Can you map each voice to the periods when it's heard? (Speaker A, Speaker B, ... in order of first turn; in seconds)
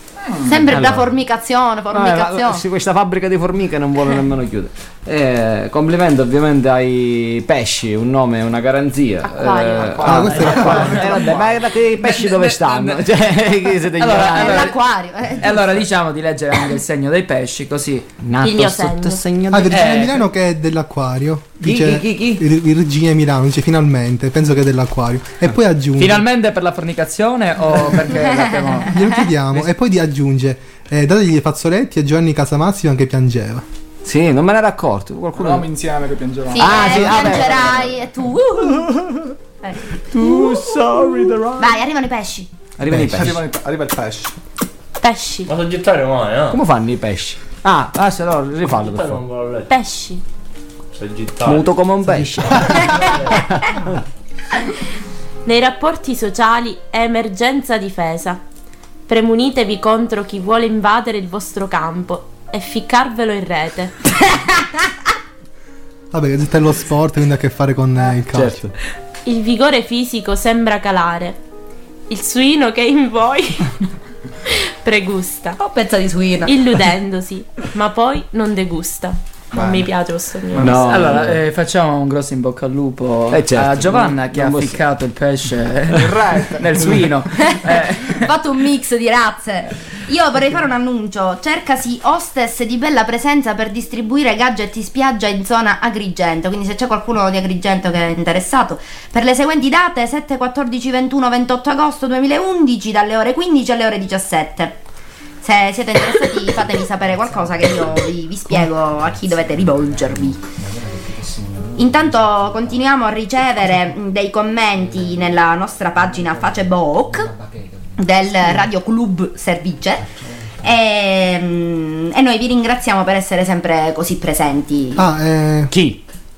Speaker A: 0.3-0.7, 9.8-11.8, 35.3-37.7, 43.0-44.3, 79.5-80.0, 80.5-81.4, 85.9-87.1
Speaker B: 0.5-2.6, 14.3-15.7, 36.5-38.9, 39.6-40.5, 41.6-42.5, 75.6-76.7, 87.5-104.8, 105.4-110.4, 111.8-117.3, 118.0-120.1, 120.6-125.1
Speaker C: 0.7-1.1, 1.9-14.7, 18.2-20.1, 21.6-22.4, 34.0-35.7, 36.6-37.9, 38.8-39.2, 40.0-41.8, 42.8-43.4, 46.5-49.2, 51.4-54.0, 68.3-68.7, 80.6-81.4, 83.3-84.8, 125.7-126.0
Speaker D: 9.4-9.8, 18.4-19.2, 45.0-45.5, 49.7-50.2, 55.5-58.4, 59.1-63.9, 69.3-71.4, 72.1-73.7, 74.5-75.6, 76.5-80.8
Speaker E: 10.0-11.1, 19.5-26.2, 28.9-33.6, 42.9-43.4, 66.1-68.7, 125.0-125.7
Speaker F: 12.0-13.1, 14.0-14.8, 15.4-18.1, 19.7-20.2, 26.0-28.9, 80.7-88.3
Speaker G: 45.5-46.6, 48.6-49.7, 51.0-51.8, 53.0-53.4